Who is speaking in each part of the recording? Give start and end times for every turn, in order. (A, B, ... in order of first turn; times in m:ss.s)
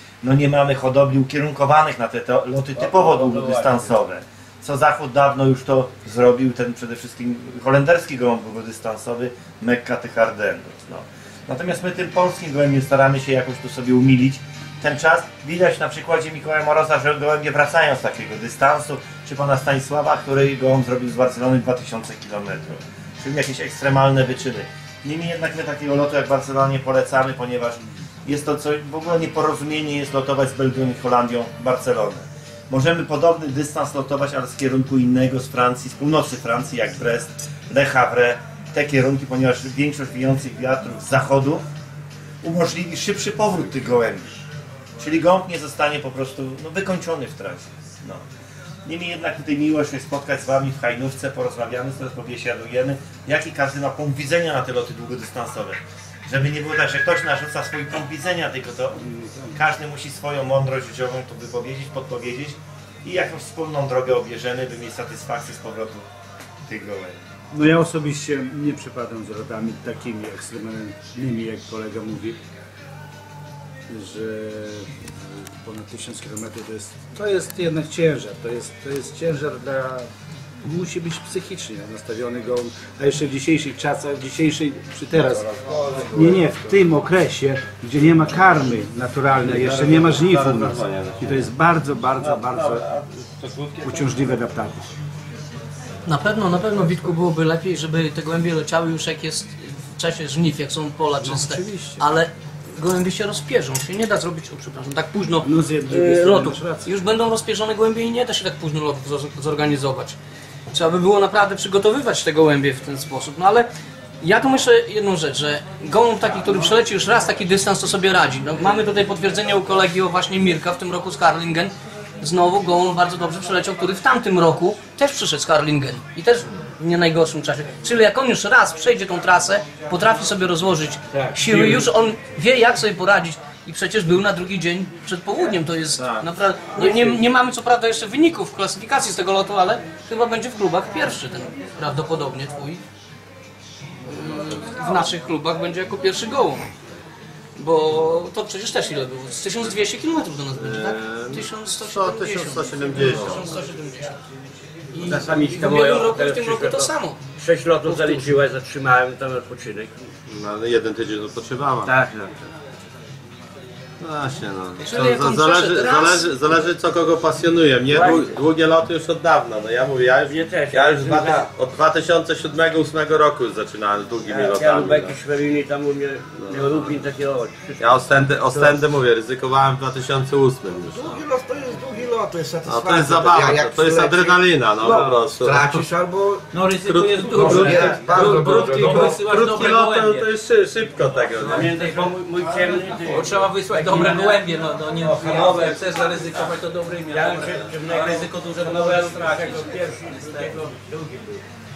0:00.2-0:41.6 A
0:03.0-0:03.2 B
0:42.4-0:44.4 A
0:45.0-0:48.2 A
0:48.9-0:59.0 A
0:59.0-0:59.6 C
0:59.5-1:06.1 A
1:06.7-1:07.2 A
1:07.5-1:12.4 C
1:13.9-1:20.1 C
1:20.6-1:25.5 C
1:25.1-1:26.8 D
1:26.1-1:32.8 C
1:29.4-1:31.5 E
1:32.2-1:34.4 E
1:33.8-1:34.9 C
1:36.1-1:50.2 F
1:41.2-1:42.0 C
1:45.4-1:46.9 C
1:50.7-1:53.7 F
1:54.2-2:22.8 F
2:11.1-2:11.9 G
2:16.8-2:17.2 G
2:24.1-2:26.7 F
2:27.6-2:34.2 F
2:30.6-2:33.5 E
2:34.9-2:37.2 F
2:35.0-2:40.0 G
2:37.8-2:38.4 F
2:40.3-2:42.0 E
2:41.8-2:42.4 G
2:44.0-2:55.2 E
2:44.8-2:46.5 F
2:47.9-2:48.4 G
2:50.2-2:51.5 G
2:54.3-2:58.9 G
2:56.4-2:57.0 E
2:57.8-3:01.2 E
3:00.9-3:06.4 D
3:02.6-3:05.7 E
3:06.5-3:10.3 B
3:06.8-3:08.0 E
3:07.3-3:09.2 D
3:09.3-3:11.8 E
3:11.0-3:20.8 B
3:11.4-3:21.4 G